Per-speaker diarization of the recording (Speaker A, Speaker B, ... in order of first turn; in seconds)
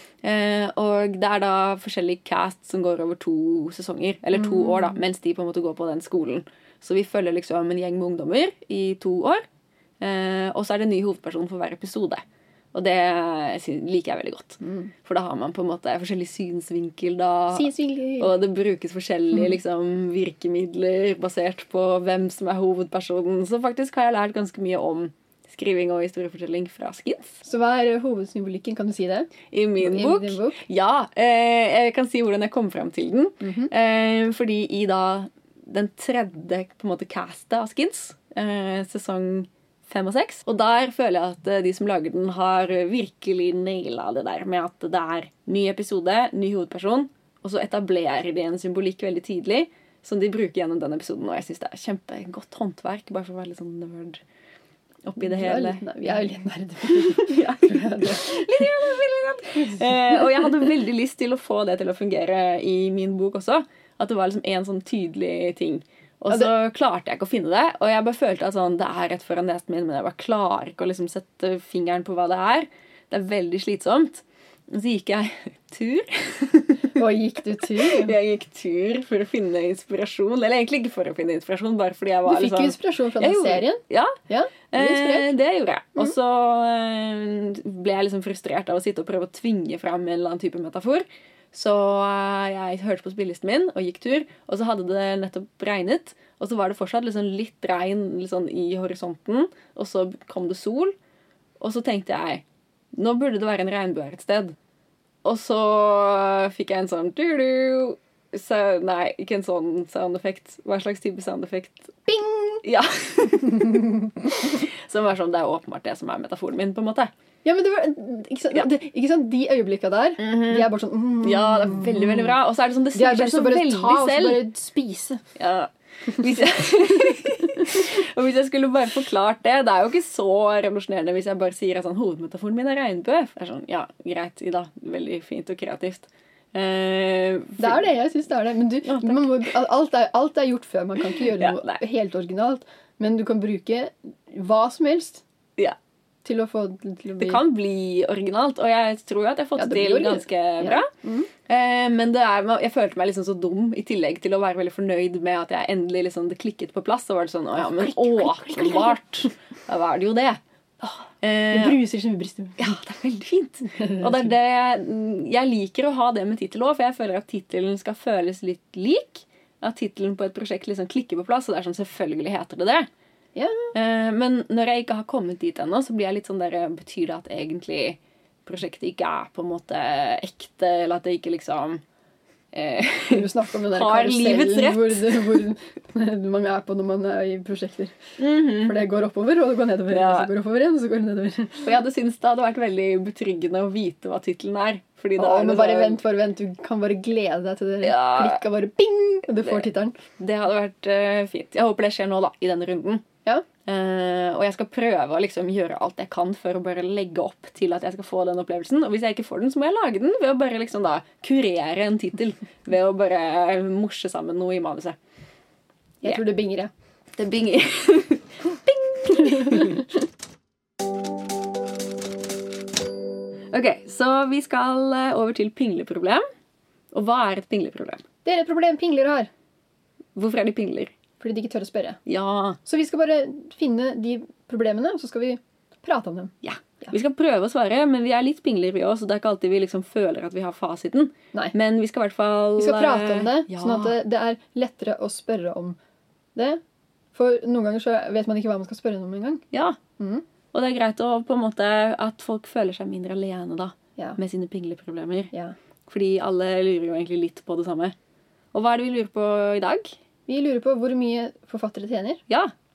Speaker A: 0.2-9.4, 10.0-12.2, 12.7-27.4, 29.5-54.2, 55.0-55.9, 56.9-77.0, 77.8-84.2, 84.7-100.9, 101.6-102.4, 102.9-104.5, 105.2-112.0, 112.6-117.1, 120.2-120.7, 121.2-124.4, 125.4-137.9, 138.8-139.5, 141.4-141.8, 147.2-150.9, 151.4-160.4, 161.2-161.8, 162.6-172.9, 173.7-181.8, 182.5-185.4, 188.2-188.8, 189.9-190.3, 191.6-196.0, 197.8-198.4, 200.2-203.1, 203.6-215.0, 217.2-219.9, 223.5-226.2, 226.9-228.0, 230.2-230.9, 232.1-232.6, 236.4-244.0, 249.5-249.8, 250.5-255.3, 255.9-257.9, 258.5-259.9
Speaker B: 4.4-4.9, 14.6-14.9, 17.5-18.3, 27.4-30.6, 33.4-33.7, 55.2-58.7, 77.0-78.2, 82.2-85.3, 112.1-112.6, 113.5-114.1, 117.4-122.3, 122.9-125.2, 127.1-127.4, 137.6-145.2, 146.2-147.4, 149.6-151.3, 157.6-159.0, 161.5-162.6, 173.3-173.7, 183.1-191.7, 195.2-200.0, 216.0-216.7, 219.2-219.8, 228.2-229.3, 231.2-232.0, 232.6-236.9, 242.6-245.8, 246.3-246.6, 247.1-249.4, 250.0-250.2, 260.3-262.2